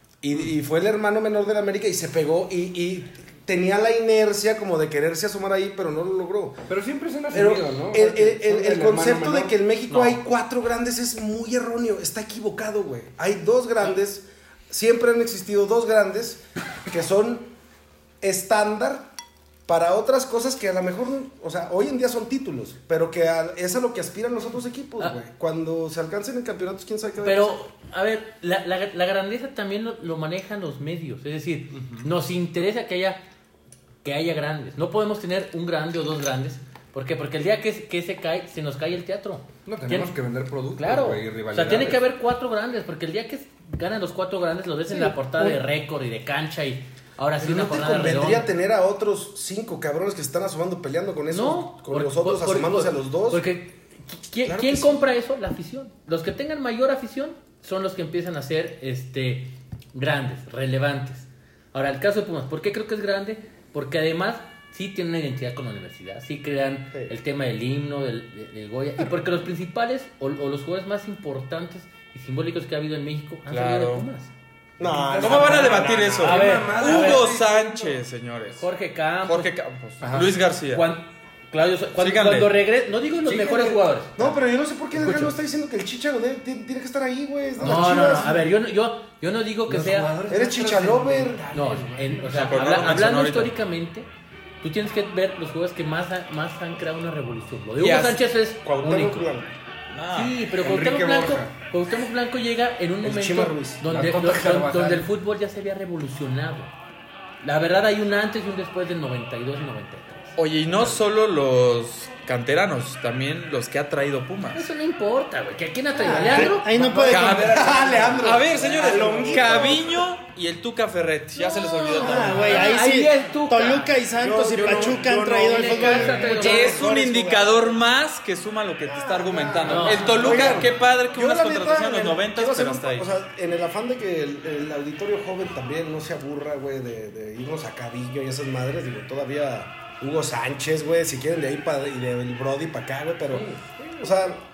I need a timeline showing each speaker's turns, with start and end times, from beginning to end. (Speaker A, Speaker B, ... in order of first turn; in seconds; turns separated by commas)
Speaker A: 0.2-6.6, Speaker B: 6.7-9.5, Speaker A: 7.3-17.5, Speaker A: 18.2-19.1, Speaker A: 19.7-27.6, Speaker C: 27.2-33.2, Speaker B: 31.7-32.1, Speaker C: 34.0-40.1, Speaker B: 39.6-42.0, Speaker C: 40.7-48.5, Speaker D: 44.9-45.6, Speaker A: 47.4-53.4, Speaker C: 51.3-74.3, Speaker A: 54.4-55.0, Speaker E: 73.5-74.0, Speaker A: 74.8-76.4, Speaker B: 74.8-78.0, Speaker E: 75.2-78.6, Speaker C: 75.4-77.3, Speaker C: 78.5-79.5, Speaker E: 79.2-80.9, Speaker B: 80.0-80.3, Speaker C: 80.7-84.3, Speaker E: 82.0-82.5, Speaker B: 83.2-83.8, Speaker A: 84.2-88.5, Speaker C: 85.0-85.3, Speaker C: 87.6-90.2, Speaker D: 87.8-88.3, Speaker B: 89.7-93.0, Speaker A: 90.3-91.4, Speaker C: 91.5-94.1, Speaker E: 92.3-93.5, Speaker C: 94.6-99.3, Speaker E: 97.8-98.2, Speaker A: 98.6-99.5, Speaker E: 99.9-100.3, Speaker C: 100.1-106.7, Speaker B: 100.6-101.5, Speaker A: 103.0-103.8, Speaker B: 103.8-105.1, Speaker C: 107.4-110.9, Speaker E: 110.3-114.7, Speaker C: 114.5-116.7, Speaker A: 116.0-116.5, Speaker B: 116.1-119.7, Speaker D: 116.1-117.8, Speaker E: 117.1-122.8, Speaker A: 117.2-120.0, Speaker C: 121.4-123.9, Speaker D: 122.0-127.4, Speaker A: 124.2-127.4, Speaker C: 125.5-126.8, Speaker E: 126.3-133.1, Speaker A: 128.9-143.5, Speaker D: 129.1-130.1, Speaker C: 129.6-130.7, Speaker B: 143.3-143.9, Speaker A: 144.0-144.4